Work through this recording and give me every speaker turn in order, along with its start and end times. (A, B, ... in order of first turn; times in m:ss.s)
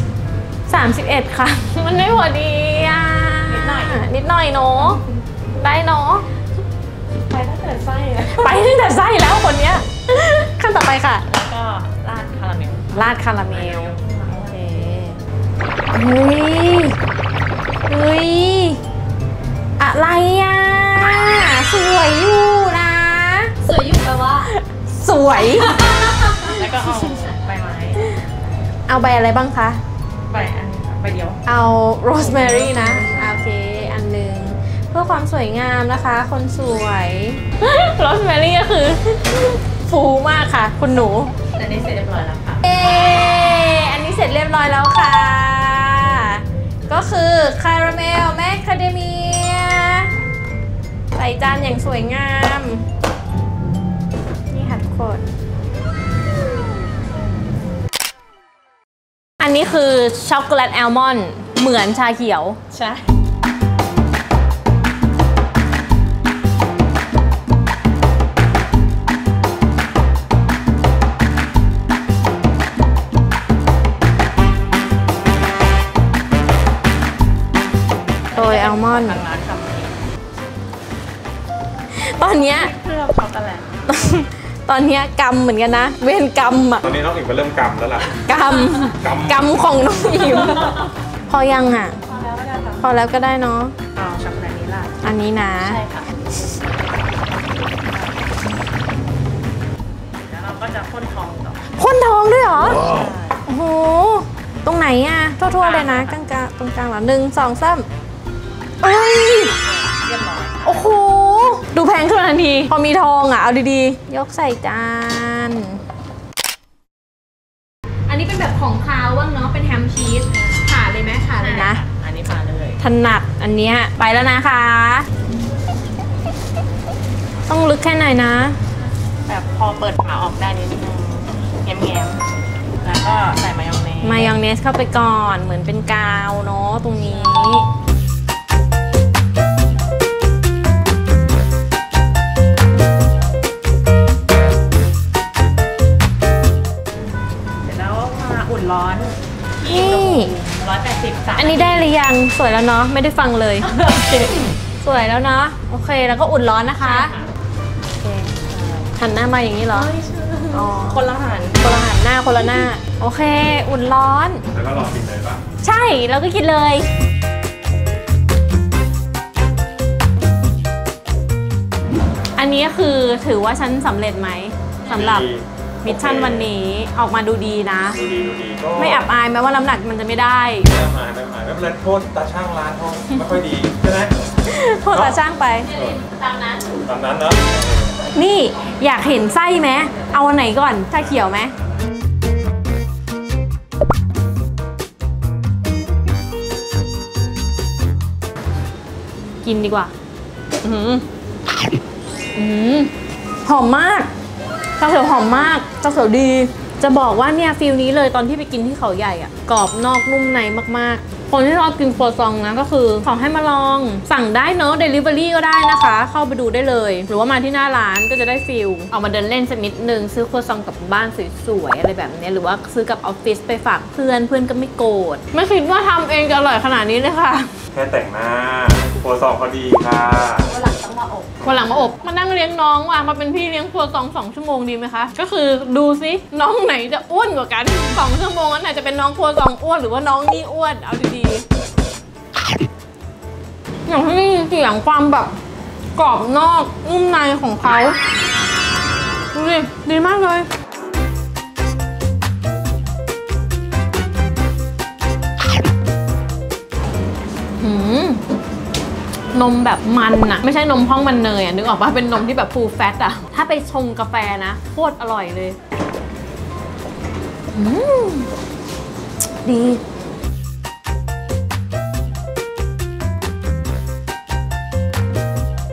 0:00.7-0:05.0 A
0:03.5-0:04.0 B
0:04.8-0:05.1 B
0:05.6-0:06.2 A
0:07.2-0:08.6 B
0:08.3-0:11.2 A
0:11.3-0:14.6 B
0:12.9-0:15.2 A
0:15.9-0:17.0 A
0:17.9-0:18.8 A
0:19.8-0:23.5 A
0:23.6-0:24.5 C
0:24.4-0:25.8 A
0:25.5-0:26.5 C
0:26.4-0:28.3 B
0:28.9-0:29.8 A
0:30.3-0:31.4 B
0:31.4-0:41.3 A
0:32.2-0:33.4 B
0:41.5-0:42.6 B
0:42.6-0:50.1 A
0:51.1-0:52.8 A
0:54.5-0:55.2 A
0:59.4-1:02.6 A
1:02.7-1:03.0 B
1:18.3-1:20.0 B
1:18.3-1:19.2 A
1:21.9-1:22.7 A
1:22.2-1:24.2 B
1:23.9-1:26.8 A
1:26.8-1:28.2 D
1:28.2-1:32.0 A
1:28.9-1:29.7 D
1:30.3-1:30.9 B
1:32.0-1:32.9 B
1:32.8-1:33.7 A
1:33.9-1:34.9 B
1:35.0-1:35.8 A
1:35.5-1:38.2 B
1:40.2-1:41.6 B
1:41.8-1:42.8 A
1:42.7-1:43.4 B
1:43.4-1:47.8 A
1:45.5-1:46.2 B
1:48.8-1:49.5 A
1:49.5-1:50.9 B
1:50.6-1:55.8 A
1:58.1-2:01.8 A
2:01.4-2:02.8 B
2:02.8-2:05.1 A
2:07.5-2:08.6 A
2:09.2-2:12.2 B
2:12.8-2:14.4 B
2:14.0-2:17.6 A
2:17.1-2:17.5 B
2:27.6-2:31.9 B
2:29.6-2:30.3 A
2:31.4-2:33.7 A
2:33.6-2:34.5 B
2:34.8-2:37.1 A
2:36.8-2:37.3 B
2:38.0-2:38.3 A
2:38.5-2:38.9 B
2:39.0-2:39.9 A
2:39.7-2:41.7 B
2:40.5-2:44.4 A
2:42.4-2:42.7 B
2:44.5-2:45.4 D
2:45.6-2:46.8 A
2:52.4-2:55.3 A
2:54.9-2:56.5 D
2:55.8-2:58.0 A
2:57.9-2:59.1 D
2:58.8-3:00.7 A
3:00.6-3:04.2 D
3:04.4-3:06.7 A
3:04.9-3:06.0 D
3:06.8-3:08.0 D
3:08.1-3:11.5 A
3:19.4-3:19.9 A
3:20.6-3:21.0 A
3:22.3-3:22.9 A
3:23.4-3:24.1 A
3:24.8-3:47.5 A
3:47.7-3:50.5 D
3:50.4-3:51.7 C
3:51.4-4:01.4 A
4:03.9-4:05.3 A
4:06.0-4:08.0 A
4:09.3-4:10.5 A
4:17.6-4:18.2 A
4:19.3-4:25.6 A
4:27.5-4:28.3 A
4:29.4-4:29.8 A